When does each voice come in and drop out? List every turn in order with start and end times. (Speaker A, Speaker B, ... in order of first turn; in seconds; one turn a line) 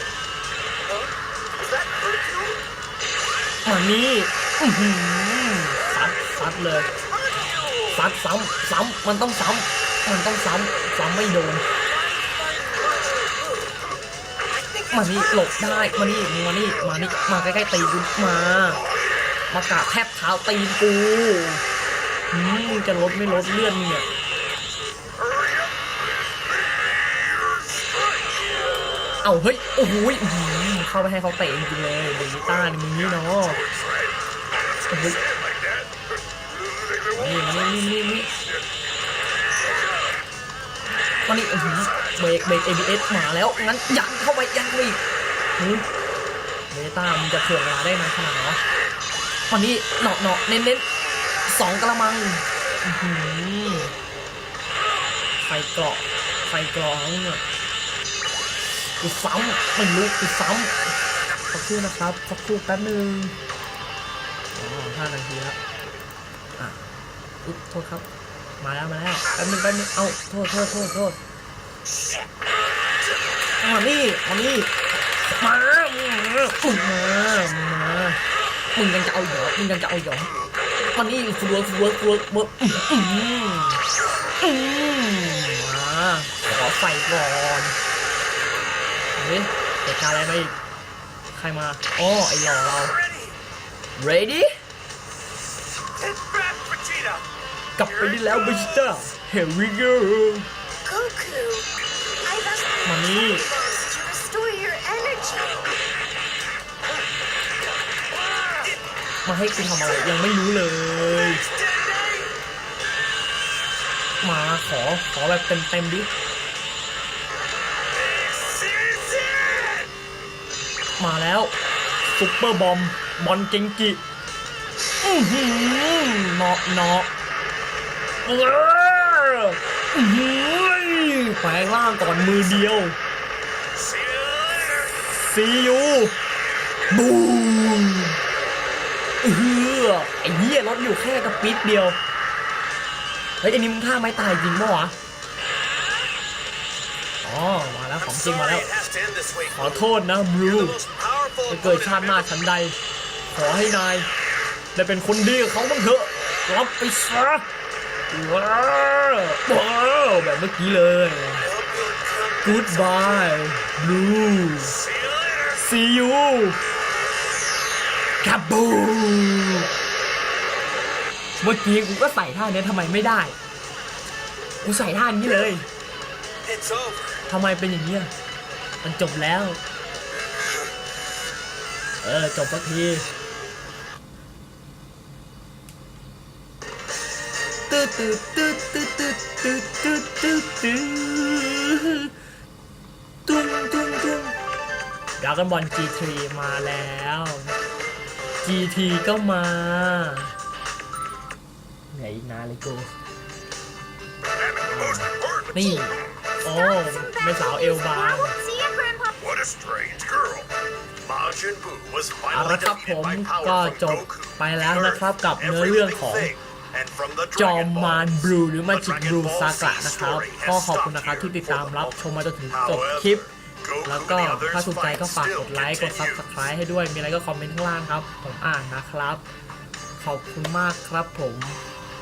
Speaker A: 0.9-2.6
Speaker B: 3.6-6.9
Speaker A: 7.4-7.7
Speaker B: 7.9-11.6
Speaker B: 14.9-18.8
Speaker B: 19.5-21.6
Speaker B: 22.3-24.1
Speaker A: 25.2-25.8
Speaker A: 26.7-28.5
Speaker B: 29.2-33.6
Speaker A: 32.7-34.2
Speaker A: 34.7-37.5
Speaker B: 34.9-35.2
Speaker B: 37.1-38.3
Speaker A: 38.2-38.8
Speaker B: 41.3-45.0
Speaker B: 45.6-45.9
Speaker B: 46.7-48.6
Speaker B: 49.5-50.9
Speaker B: 51.5-54.0
Speaker B: 55.5-57.4
Speaker B: 59.0-61.0
Speaker B: 61.5-63.4
Speaker B: 64.5-65.6
Speaker B: 67.4-68.0
Speaker B: 68.6-71.2
Speaker B: 73.6-74.7
Speaker B: 75.3-78.2
Speaker B: 78.8-80.3
Speaker B: 80.9-83.8
Speaker B: 84.4-87.8
Speaker B: 89.2-90.6
Speaker B: 91.3-93.0
Speaker A: 93.0-93.4
Speaker B: 94.0-94.6
Speaker A: 96.0-97.2
Speaker B: 97.8-100.5
Speaker A: 98.0-98.7
Speaker C: 100.8-101.7
Speaker C: 102.2-105.6
Speaker B: 102.8-103.5
Speaker B: 109.2-111.5
Speaker A: 111.5-112.3
Speaker B: 114.2-116.1
Speaker A: 118.0-119.9
Speaker B: 121.0-121.5
Speaker B: 122.1-124.0
Speaker B: 125.0-127.1
Speaker B: 128.2-133.0
Speaker A: 133.7-135.1
Speaker B: 135.1-136.2
Speaker B: 136.9-138.2
Speaker B: 139.2-142.0
Speaker B: 143.4-144.9
Speaker B: 147.2-148.7
Speaker A: 148.0-149.7
Speaker B: 149.5-150.8
Speaker A: 150.5-152.2
Speaker B: 151.5-152.8
Speaker B: 153.3-154.1
Speaker B: 154.8-157.5
Speaker B: 158.1-161.5
Speaker A: 161.4-163.2
Speaker B: 162.4-164.8
Speaker A: 164.7-165.6
Speaker B: 165.6-166.6
Speaker B: 168.2-169.7
Speaker B: 171.4-173.4
Speaker B: 174.6-175.7
Speaker A: 176.4-177.2
Speaker B: 177.3-178.1
Speaker B: 178.8-179.6
Speaker B: 182.0-183.1
Speaker B: 187.7-192.1
Speaker B: 193.3-194.3
Speaker B: 195.2-197.6
Speaker B: 198.4-200.3
Speaker B: 201.9-203.0
Speaker A: 204.4-206.0
Speaker B: 204.7-208.3
Speaker C: 206.5-209.2
Speaker A: 209.2-210.5
Speaker A: 211.0-218.2
Speaker B: 212.3-216.3
Speaker B: 217.3-223.3
Speaker A: 218.7-221.9
Speaker A: 222.5-226.2
Speaker B: 223.8-229.2
Speaker B: 230.0-231.6